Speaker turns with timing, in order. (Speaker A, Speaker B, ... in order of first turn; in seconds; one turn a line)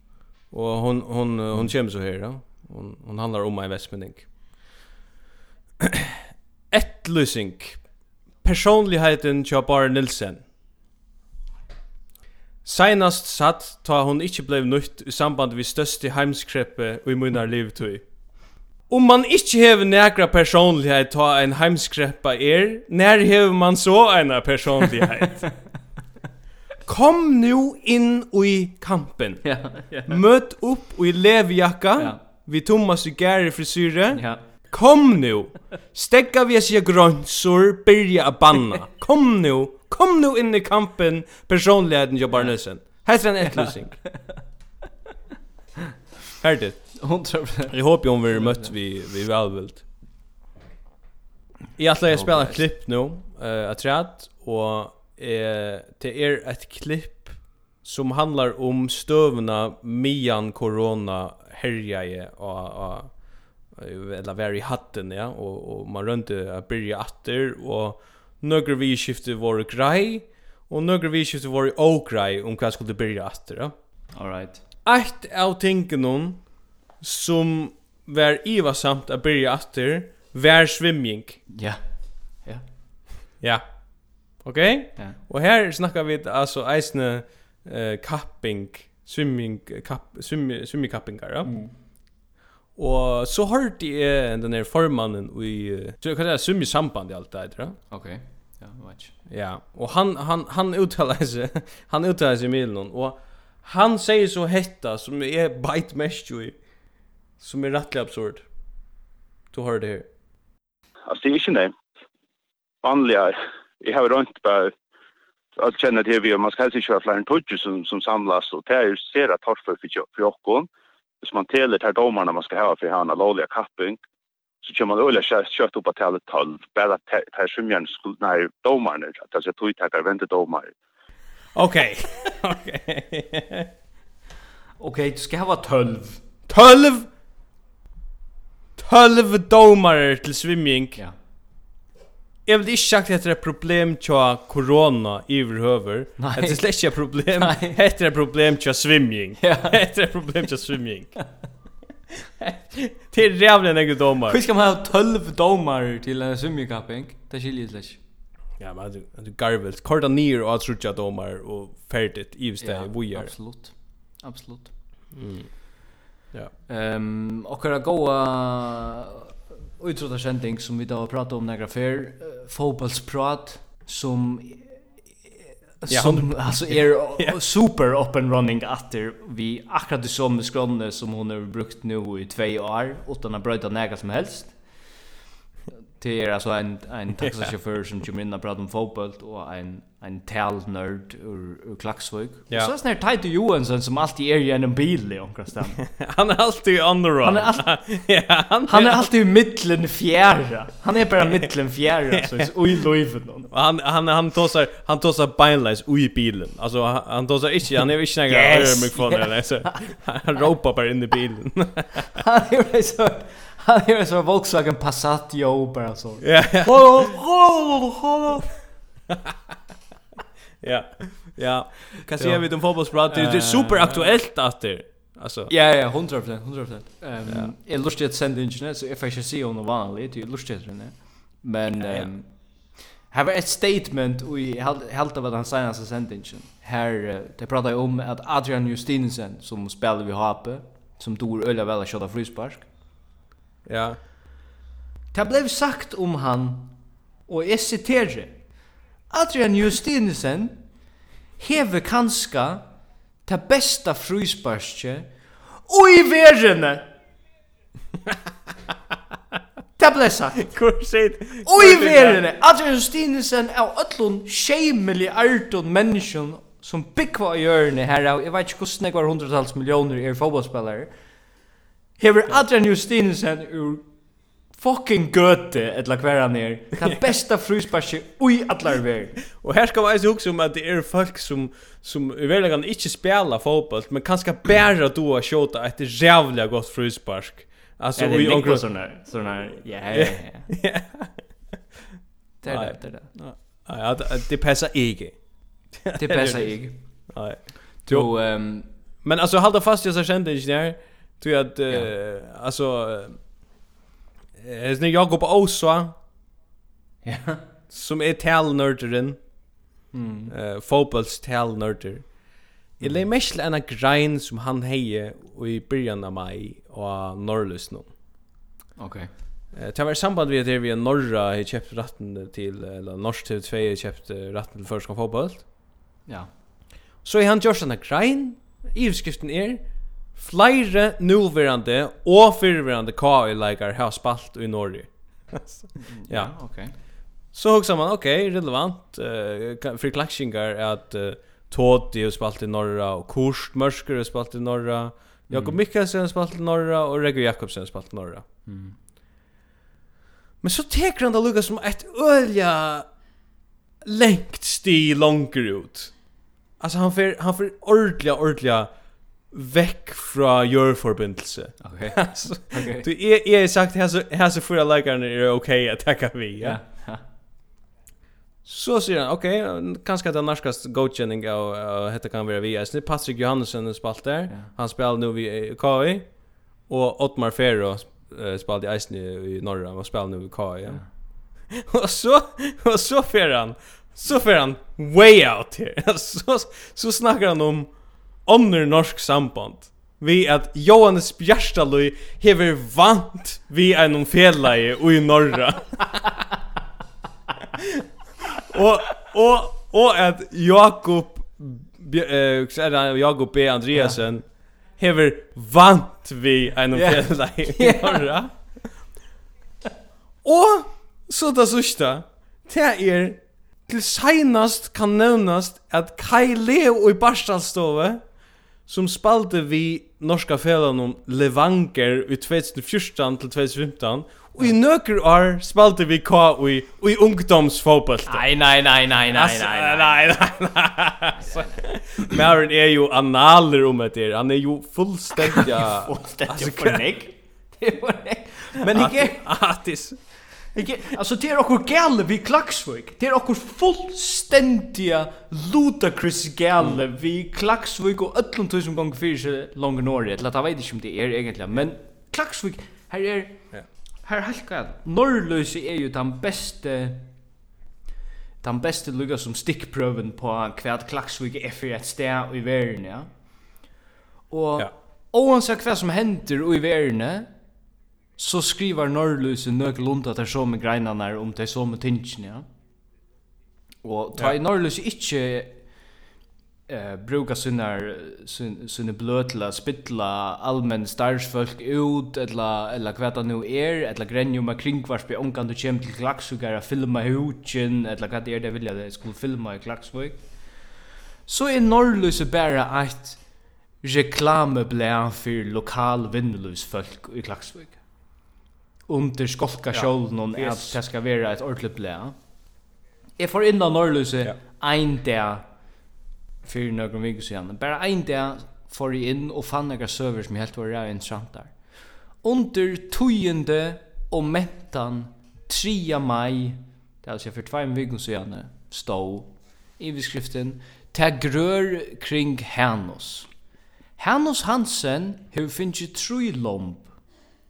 Speaker A: 0.5-4.3
Speaker A: 5.8-6.2
Speaker A: 6.7-7.8
Speaker A: 8.4-10.4
Speaker A: 12.6-18.1
Speaker A: 18.9-25.5
Speaker A: 26.9-44.1
Speaker B: 29.4-30.2
Speaker B: 34.1-34.4
Speaker B: 43.4-44.2
Speaker A: 46.4-49.8
Speaker B: 47.0-48.7
Speaker A: 51.8-63.1
Speaker B: 52.1-52.6
Speaker A: 63.7-73.8
Speaker B: 74.1-74.6
Speaker A: 74.8-81.4
Speaker B: 81.5-82.7
Speaker A: 83.4-91.6
Speaker B: 91.4-91.7
Speaker A: 92.8-97.8
Speaker B: 97.9-99.1
Speaker A: 99.3-106.6
Speaker A: 107.4-108.5
Speaker A: 109.5-110.1
Speaker C: 111.1-111.7
Speaker C: 112.8-114.7
Speaker C: 115.6-120.7
Speaker C: 121.2-124.0
Speaker C: 124.6-130.7
Speaker A: 131.5-133.7
Speaker B: 134.8-136.2
Speaker A: 136.5-137.1
Speaker A: 138.8-141.0
Speaker A: 142.4-151.2
Speaker B: 146.2-147.8
Speaker B: 149.4-149.8
Speaker A: 152.4-154.4
Speaker B: 154.3-158.0
Speaker A: 158.6-163.3
Speaker B: 162.6-164.7
Speaker A: 165.1-165.7
Speaker B: 166.7-174.8
Speaker B: 175.8-184.6
Speaker A: 175.9-177.4
Speaker B: 186.0-195.8
Speaker A: 187.2-187.5
Speaker A: 195.8-199.1
Speaker B: 197.2-197.7
Speaker B: 198.7-203.5
Speaker A: 202.2-202.5
Speaker A: 203.5-212.1
Speaker B: 208.3-209.9
Speaker B: 212.2-216.2
Speaker A: 216.2-218.5
Speaker A: 219.1-219.3
Speaker A: 220.6-225.5
Speaker B: 222.1-224.1
Speaker B: 225.5-242.7
Speaker A: 231.8-232.1
Speaker A: 243.7-244.0
Speaker B: 245.1-248.5
Speaker B: 249.1-250.6
Speaker B: 251.4-252.7
Speaker B: 253.2-255.1
Speaker B: 255.7-256.9
Speaker B: 259.8-260.5
Speaker A: 260.4-262.2
Speaker B: 261.4-270.9
Speaker B: 272.0-273.9
Speaker B: 274.5-279.2
Speaker A: 279.3-288.7
Speaker B: 288.0-290.5
Speaker A: 289.9-291.2
Speaker B: 292.4-293.1
Speaker A: 292.5-295.2
Speaker A: 295.7-298.1
Speaker B: 295.9-296.8
Speaker B: 297.9-298.7
Speaker A: 299.0-303.2
Speaker A: 304.4-306.0
Speaker B: 307.0-307.4
Speaker A: 307.7-309.2
Speaker B: 309.9-310.3
Speaker A: 310.3-312.2
Speaker A: 312.8-317.9
Speaker B: 312.8-313.1
Speaker B: 318.8-319.1
Speaker A: 319.5-325.5
Speaker A: 327.0-336.4
Speaker B: 335.8-336.7
Speaker A: 337.3-348.2
Speaker B: 345.3-345.6
Speaker B: 348.4-348.8
Speaker A: 350.4-352.9
Speaker A: 353.8-355.9
Speaker A: 356.6-358.7
Speaker A: 359.3-366.6
Speaker B: 361.6-362.9
Speaker B: 366.4-367.0
Speaker A: 368.4-376.1
Speaker A: 376.7-380.8
Speaker A: 381.4-396.1
Speaker A: 397.6-397.8
Speaker A: 398.4-408.3
Speaker B: 406.7-408.1
Speaker A: 410.2-418.0
Speaker A: 418.7-428.3
Speaker B: 428.1-430.0
Speaker A: 429.1-436.9
Speaker B: 431.2-432.1
Speaker B: 435.1-439.2
Speaker A: 438.7-440.0
Speaker B: 440.5-453.4
Speaker B: 454.0-457.1
Speaker B: 458.4-463.1
Speaker B: 464.3-467.3
Speaker B: 468.2-472.4
Speaker B: 473.8-475.6
Speaker B: 476.7-490.2
Speaker B: 491.3-493.2
Speaker B: 493.8-497.8
Speaker B: 498.9-502.1
Speaker A: 499.7-500.8
Speaker B: 503.2-505.4
Speaker B: 506.4-511.5
Speaker B: 512.2-523.3
Speaker B: 524.0-526.9